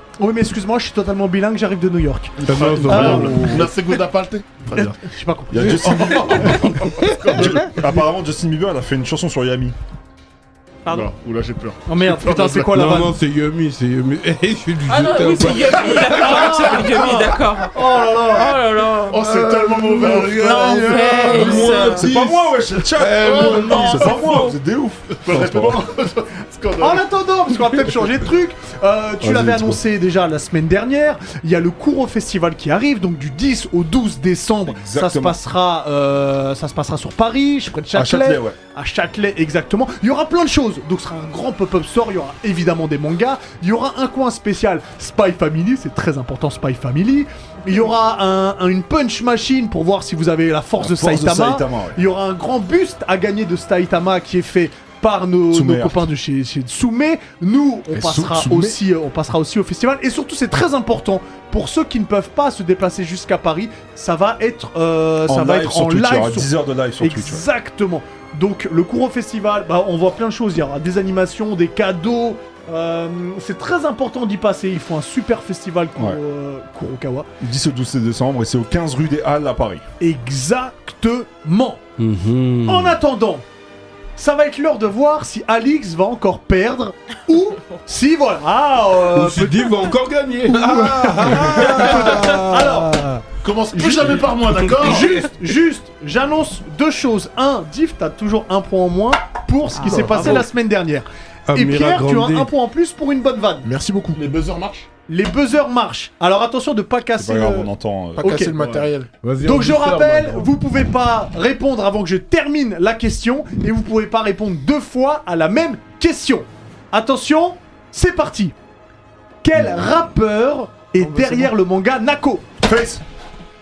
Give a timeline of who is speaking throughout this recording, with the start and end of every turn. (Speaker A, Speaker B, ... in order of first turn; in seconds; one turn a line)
Speaker A: 0.2-3.7
Speaker B: 2.4-5.0
Speaker C: 2.5-3.7
Speaker A: 4.7-6.7
Speaker D: 5.5-9.8
Speaker B: 5.7-7.8
Speaker C: 6.8-7.4
Speaker B: 10.9-13.0
Speaker A: 11.8-13.1
Speaker C: 12.7-17.2
Speaker E: 14.9-19.2
Speaker A: 16.0-18.6
Speaker B: 19.1-22.3
Speaker F: 19.5-20.6
Speaker A: 19.7-21.9
Speaker E: 20.6-22.1
Speaker C: 21.2-22.0
Speaker D: 21.3-25.8
Speaker C: 22.9-24.1
Speaker B: 23.2-24.3
Speaker E: 23.4-24.6
Speaker B: 25.1-27.0
Speaker A: 26.8-77.3
Speaker D: 29.2-29.8
Speaker D: 34.7-35.4
Speaker D: 37.9-38.6
Speaker D: 50.8-52.0
Speaker D: 55.5-56.0
Speaker F: 57.9-58.8
Speaker D: 65.3-67.4
Speaker D: 77.4-79.8
Speaker A: 80.0-81.8
Speaker C: 82.0-83.0
Speaker A: 82.7-83.5
Speaker A: 84.2-89.9
Speaker C: 89.1-93.0
Speaker A: 90.5-103.7
Speaker F: 91.2-91.7
Speaker B: 93.4-95.1
Speaker C: 94.5-95.3
Speaker C: 99.8-100.4
Speaker F: 99.8-100.5
Speaker C: 101.5-102.5
Speaker F: 103.6-104.2
Speaker B: 104.1-104.9
Speaker A: 105.1-108.5
Speaker D: 107.2-108.3
Speaker F: 108.2-109.1
Speaker B: 108.5-108.9
Speaker C: 109.2-110.5
Speaker A: 109.4-118.5
Speaker A: 119.4-122.5
Speaker E: 121.2-121.5
Speaker D: 122.6-123.0